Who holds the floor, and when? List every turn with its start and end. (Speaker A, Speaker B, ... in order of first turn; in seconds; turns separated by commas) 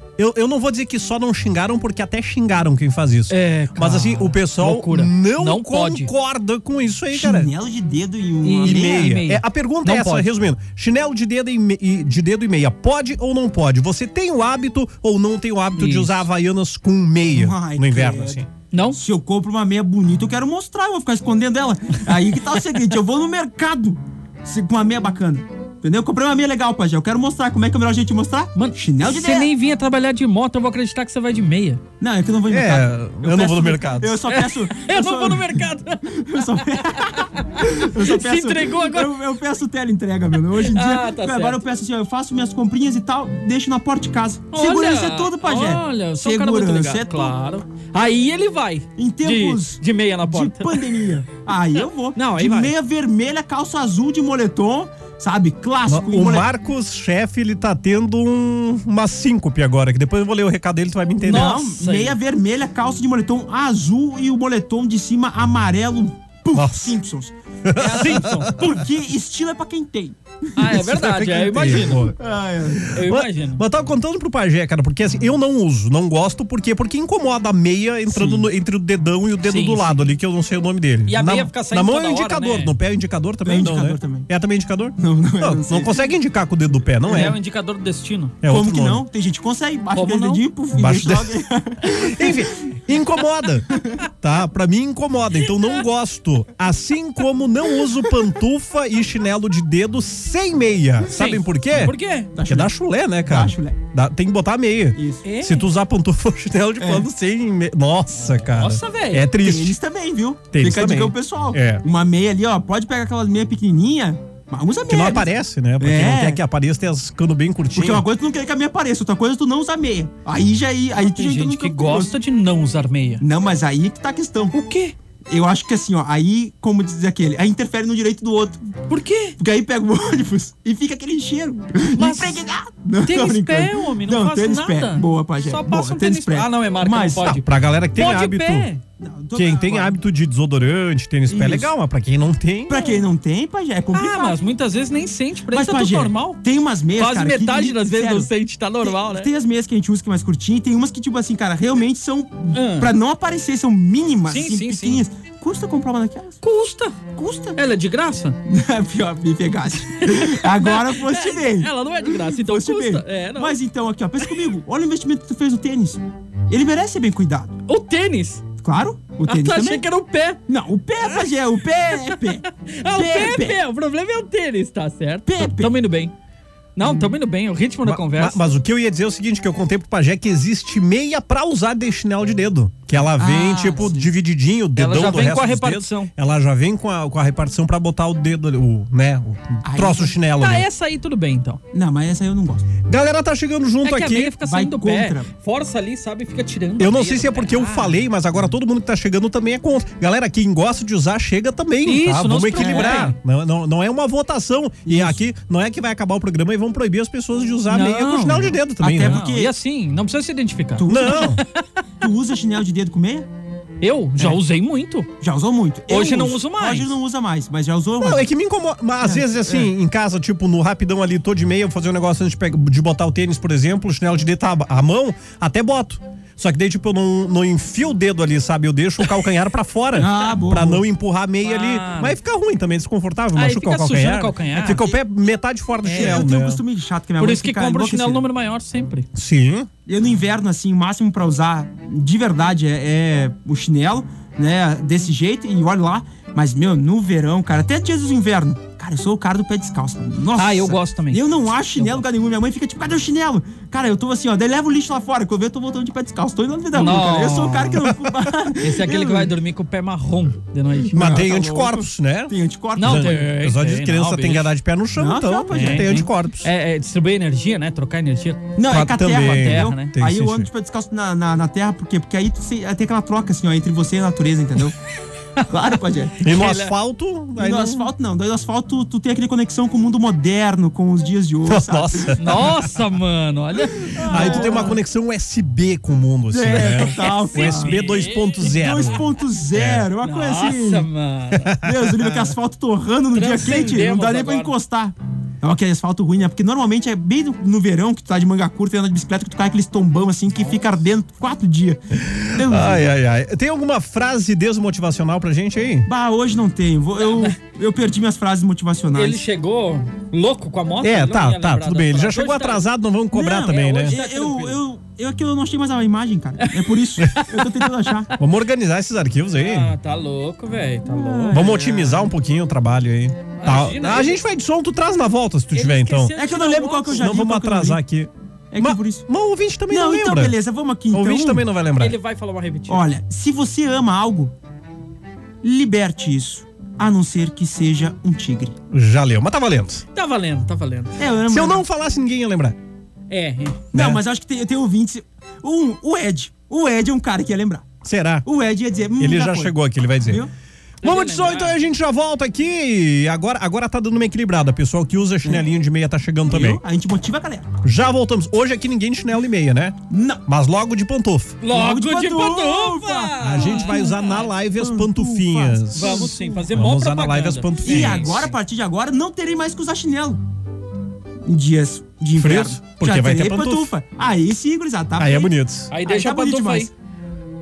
Speaker A: 0.2-7.5, Speaker B: 3.3-6.1, Speaker C: 7.1-9.2, Speaker B: 8.4-10.3, Speaker A: 8.6-18.4, Speaker B: 15.8-16.2, Speaker C: 17.3-29.5, Speaker B: 18.7-19.0, Speaker B: 28.5-31.8, Speaker C: 32.0-47.3, Speaker A: 32.5-34.1, Speaker B: 34.3-39.1, Speaker B: 40.6-41.6, Speaker B: 44.5-50.8, Speaker C: 49.0-56.5, Speaker B: 52.1-52.7, Speaker A: 55.9-61.6, Speaker B: 61.2-62.2, Speaker C: 61.2-67.3, Speaker A: 66.5-67.0, Speaker A: 67.6-68.8, Speaker B: 67.8-68.6, Speaker C: 68.5-70.2, Speaker B: 70.5-72.1, Speaker A: 70.7-72.2, Speaker C: 72.1-72.9, Speaker A: 72.9-87.4, Speaker B: 72.9-73.6, Speaker B: 79.4-80.0, Speaker B: 81.1-82.7, Speaker C: 83.4-84.3, Speaker C: 85.0-86.0, Speaker B: 87.1-88.4, Speaker A: 88.4-89.0, Speaker C: 88.5-92.5, Speaker B: 89.9-90.4, Speaker A: 90.7-109.8, Speaker B: 101.1-102.3, Speaker C: 102.3-102.7, Speaker C: 103.2-103.8, Speaker C: 105.0-105.2, Speaker B: 105.2-105.7, Speaker C: 106.8-107.0, Speaker B: 108.1-109.2, Speaker C: 109.4-116.4, Speaker A: 110.5-111.8, Speaker A: 114.9-118.0, Speaker C: 117.7-122.1, Speaker B: 121.0-123.2, Speaker C: 123.2-124.5, Speaker B: 124.5-124.9, Speaker C: 125.3-128.7, Speaker B: 128.9-129.4, Speaker C: 129.4-137.4, Speaker B: 131.9-132.4, Speaker B: 133.0-138.8, Speaker A: 137.2-138.7, Speaker C: 139.0-140.0, Speaker A: 139.3-142.8, Speaker C: 141.3-141.7, Speaker C: 142.7-144.4, Speaker B: 142.7-143.0, Speaker B: 143.9-146.4, Speaker C: 145.5-148.3, Speaker B: 147.0-149.3, Speaker C: 148.8-156.4, Speaker B: 152.5-152.9, Speaker B: 154.3-155.0, Speaker B: 156.4-157.0, Speaker C: 157.1-157.6, Speaker B: 157.5-158.4, Speaker C: 158.5-167.5, Speaker B: 160.0-163.6, Speaker B: 167.7-168.4, Speaker C: 168.6-169.8, Speaker B: 169.2-170.4, Speaker C: 170.5-173.6, Speaker B: 172.1-176.1, Speaker C: 175.2-175.8, Speaker B: 176.8-178.5, Speaker C: 176.8-177.1, Speaker A: 177.8-190.7, Speaker C: 183.0-184.1, Speaker B: 184.7-186.1, Speaker C: 189.6-190.1, Speaker B: 190.4-191.6, Speaker C: 191.7-192.7, Speaker A: 192.8-194.4, Speaker B: 193.8-198.1, Speaker C: 194.4-195.3, Speaker A: 196.8-209.2, Speaker B: 201.8-203.2, Speaker C: 202.6-203.1, Speaker C: 204.8-205.2, Speaker B: 207.7-211.6, Speaker C: 208.8-209.5, Speaker C: 210.8-211.4, Speaker A: 210.9-211.4, Speaker C: 212.0-213.3, Speaker B: 213.8-215.1, Speaker C: 215.2-218.3, Speaker B: 215.9-216.9, Speaker A: 218.0-236.6, Speaker C: 219.0-219.7, Speaker C: 229.9-230.8, Speaker B: 231.4-232.2, Speaker B: 233.3-234.9, Speaker C: 234.6-235.0, Speaker B: 235.8-236.2, Speaker C: 235.9-238.2, Speaker B: 237.2-239.1, Speaker A: 239.1-239.7, Speaker C: 239.8-259.3, Speaker B: 250.4-251.2, Speaker B: 251.8-252.0, Speaker B: 256.7-257.8, Speaker B: 258.6-261.2, Speaker C: 260.9-263.2, Speaker A: 260.9-266.5, Speaker B: 262.8-264.5, Speaker C: 264.9-266.0, Speaker B: 265.5-268.5, Speaker C: 268.6-274.8, Speaker A: 268.6-270.5, Speaker B: 269.1-269.9, Speaker C: 275.5-276.2, Speaker A: 276.2-277.9, Speaker B: 276.2-276.7, Speaker C: 277.4-282.2, Speaker A: 281.4-282.6, Speaker B: 282.2-284.8, Speaker C: 284.0-284.7, Speaker A: 284.0-289.9, Speaker C: 286.3-287.8, Speaker B: 286.5-288.9, Speaker C: 288.4-290.9, Speaker B: 290.0-291.6, Speaker A: 291.4-291.7, Speaker C: 291.6-301.8, Speaker B: 293.1-294.5, Speaker A: 302.0-305.9, Speaker C: 302.3-302.8, Speaker C: 305.9-309.2, Speaker B: 307.0-307.3, Speaker B: 308.9-312.7, Speaker A: 310.8-314.0, Speaker C: 313.1-318.1, Speaker B: 313.2-314.6, Speaker B: 316.6-317.4, Speaker A: 318.2-319.7, Speaker B: 319.4-322.0, Speaker C: 320.9-322.0, Speaker A: 321.3-326.1, Speaker B: 323.4-324.2, Speaker B: 325.5-327.1, Speaker C: 326.1-327.8, Speaker A: 326.9-330.4, Speaker C: 328.5-329.0, Speaker C: 329.7-331.4, Speaker A: 330.9-332.0, Speaker B: 331.8-332.8, Speaker C: 332.7-334.3, Speaker C: 335.4-338.6, Speaker A: 338.7-339.8, Speaker B: 339.9-340.9, Speaker C: 341.0-341.6, Speaker A: 341.3-342.6, Speaker B: 343.1-343.6, Speaker C: 343.7-347.7, Speaker A: 343.7-344.0, Speaker A: 347.8-348.2, Speaker C: 348.2-350.3, Speaker A: 349.0-350.2, Speaker B: 350.8-351.6, Speaker A: 350.8-356.6, Speaker C: 356.3-357.5, Speaker A: 357.6-361.4, Speaker C: 359.9-360.2, Speaker B: 361.4-364.3, Speaker C: 361.5-366.6, Speaker A: 363.2-368.3, Speaker B: 365.7-368.3, Speaker C: 367.6-370.2, Speaker C: 371.2-376.7, Speaker A: 372.1-373.7, Speaker A: 375.0-375.7, Speaker B: 375.7-376.7